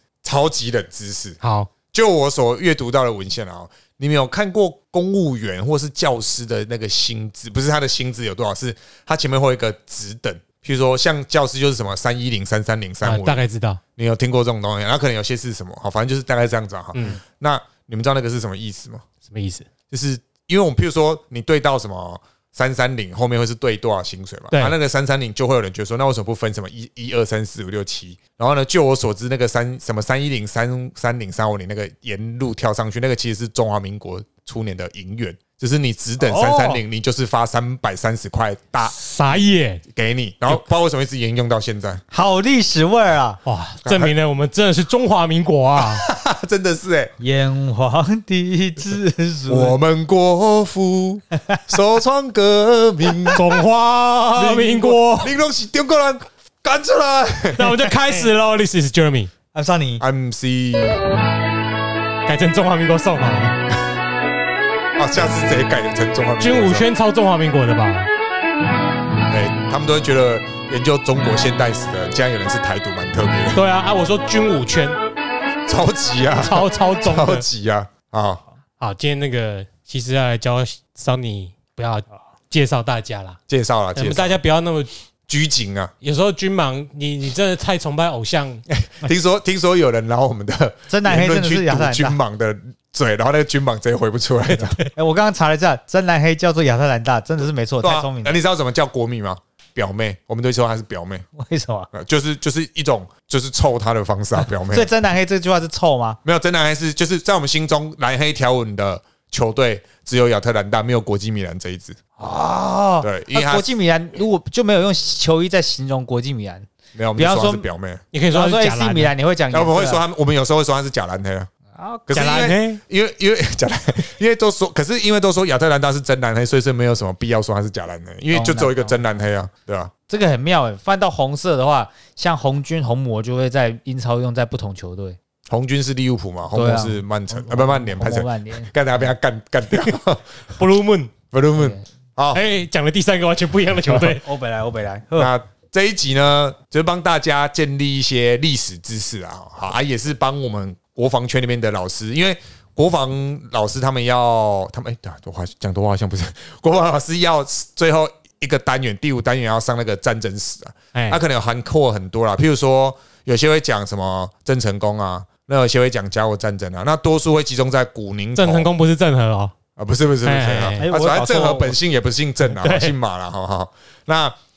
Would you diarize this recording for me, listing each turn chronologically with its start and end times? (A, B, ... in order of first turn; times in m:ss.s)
0:00.2-0:01.4 A
0:01.4-0:01.7 B
0:01.9-0:13.4 A
0:13.0-0:13.8 B
0:14.0-0:19.0 A
0:16.9-0:17.2 B
0:19.2-0:19.7 B
0:19.9-0:39.0 A
0:36.2-0:36.8 C
0:38.9-0:39.8 B
0:39.9-0:42.0 A
0:42.1-0:43.4 C
0:43.4-0:46.0 B
0:43.8-0:44.1 A
0:45.8-0:47.1 A
0:47.2-0:49.8 C
0:49.5-0:53.4 A
0:53.3-0:55.3 B
0:54.4-0:57.8 A
0:57.5-0:59.3 B
0:59.5-1:00.0 C
1:00.0-1:01.0 A
1:02.2-1:03.6 B
1:05.0-1:06.8 A
1:06.4-1:08.1 B
1:09.3-1:13.6 A
1:13.5-1:15.0 B
1:15.7-1:18.4 A
1:16.4-1:17.4 B
1:18.8-1:23.4 B
1:23.5-1:24.4 A
1:23.9-1:24.9 B
1:25.3-1:25.9 A
1:26.0-1:28.6 B
1:28.7-1:34.8 A
1:30.9-1:32.2 C
1:34.9-1:38.4 C
1:37.8-1:41.2 A
1:41.3-1:41.9 C
1:41.9-1:44.9 A
1:44.4-1:46.2 C
1:46.2-1:52.0 A
1:52.2-1:57.6 C
1:53.0-1:53.7 A
1:57.0-1:58.0 A
1:58.1-1:59.1 B
1:58.3-2:00.0 C
1:59.5-2:01.5 A
2:01.7-2:02.5 C
2:02.1-2:09.9 A
2:02.1-2:02.8 B
2:08.3-2:09.0 C
2:10.1-2:15.2 C
2:15.5-2:20.4 A
2:16.5-2:18.7 C
2:20.6-2:21.1 B
2:21.3-2:22.4 A
2:21.6-2:21.8 C
2:22.3-2:24.2 B
2:24.0-2:25.3 C
2:25.2-2:48.7 A
2:40.9-2:41.2 B
2:48.3-2:49.5 B
2:49.8-2:54.4 A
2:50.2-2:50.9 B
2:50.8-2:51.8 C
2:52.6-2:52.9 B